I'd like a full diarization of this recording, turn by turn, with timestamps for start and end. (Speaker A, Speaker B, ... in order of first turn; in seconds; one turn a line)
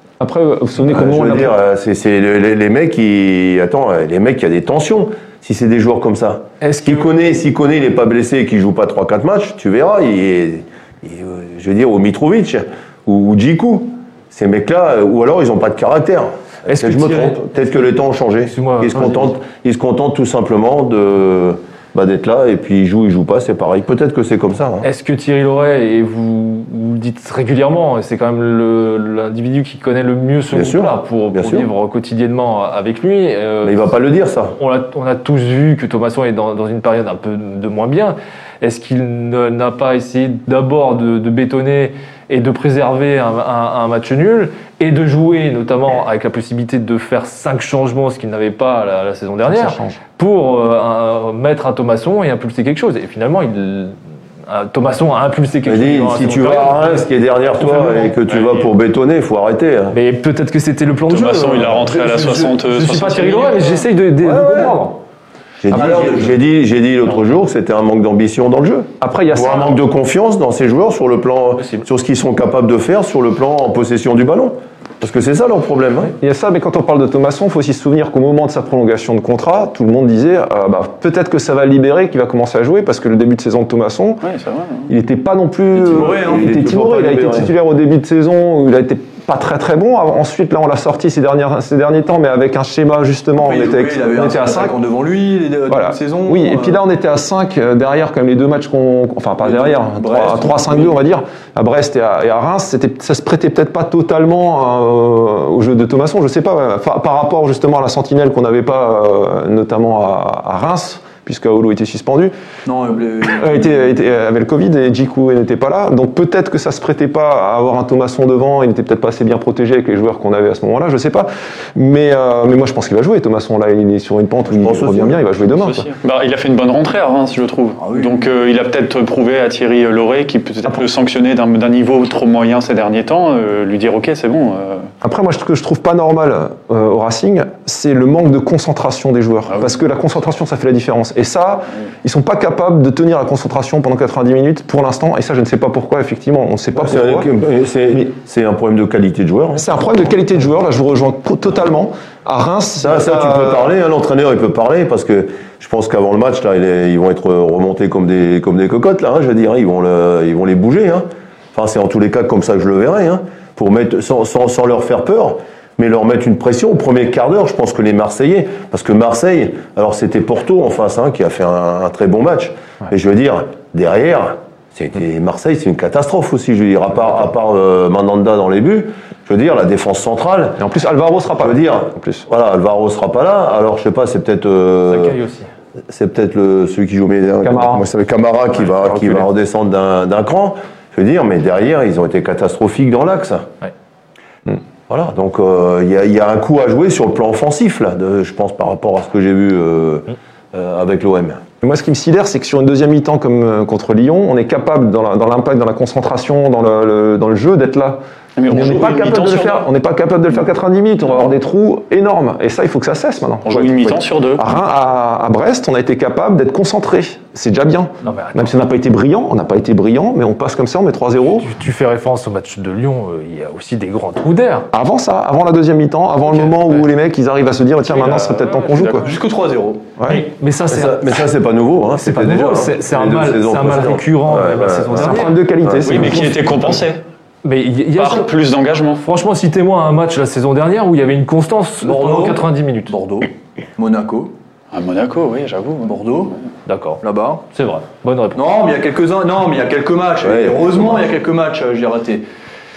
Speaker A: 0.2-1.6
Speaker B: 0.8-24.9
Speaker C: 6.6-7.1
Speaker C: 16.6-17.9
Speaker C: 18.5-19.4
Speaker C: 24.8-33.9
Speaker B: 30.5-31.7
Speaker B: 33.6-34.5
Speaker C: 34.5-58.1
Speaker A: 49.5-50.0
Speaker B: 55.6-60.0
Speaker D: 58.3-58.7
Speaker C: 59.9-65.0
Speaker D: 61.1-63.7
Speaker B: 64.2-64.8
Speaker B: 65.6-76.1
Speaker E: 65.7-66.4
Speaker A: 69.0-69.8
Speaker A: 76.2-84.3
Speaker D: 84.2-84.9
Speaker A: 84.9-94.8
Speaker E: 85.7-86.5
Speaker B: 85.9-87.5
Speaker E: 93.4-96.8
Speaker A: 95.7-112.3
Speaker E: 99.4-101.0
Speaker E: 112.7-113.9
Speaker A: 113.3-125.9
Speaker B: 124.5-125.2
Speaker D: 125.5-134.9
Speaker E: 127.8-128.2
Speaker A: 135.0-147.3
Speaker B: 146.7-149.8
Speaker A: 149.5-153.7
Speaker B: 152.8-180.6
Speaker A: 180.6-182.2
Speaker B: 181.3-185.2
Speaker C: 184.9-185.5
Speaker B: 185.9-193.5
Speaker A: 187.4-187.8
Speaker A: 188.9-189.2
Speaker B: 194.9-201.4
Speaker A: 201.6-221.5
Speaker D: 208.4-209.7
Speaker D: 213.4-214.4
Speaker C: 218.0-218.6
Speaker C: 221.4-224.7
Speaker A: 224.7-229.1
Speaker D: 228.0-229.0
Speaker E: 228.9-229.9
Speaker C: 230.1-231.2
Speaker B: 230.7-236.3
Speaker C: 232.0-235.4
Speaker A: 234.9-236.4
Speaker D: 235.8-237.0
Speaker C: 237.4-238.3
Speaker D: 238.0-239.0
Speaker C: 239.0-243.0
Speaker E: 241.8-244.3
Speaker D: 244.7-246.0
Speaker E: 245.8-246.4
Speaker C: 246.7-248.5
Speaker E: 247.0-247.5
Speaker E: 248.3-252.2
Speaker B: 250.2-251.1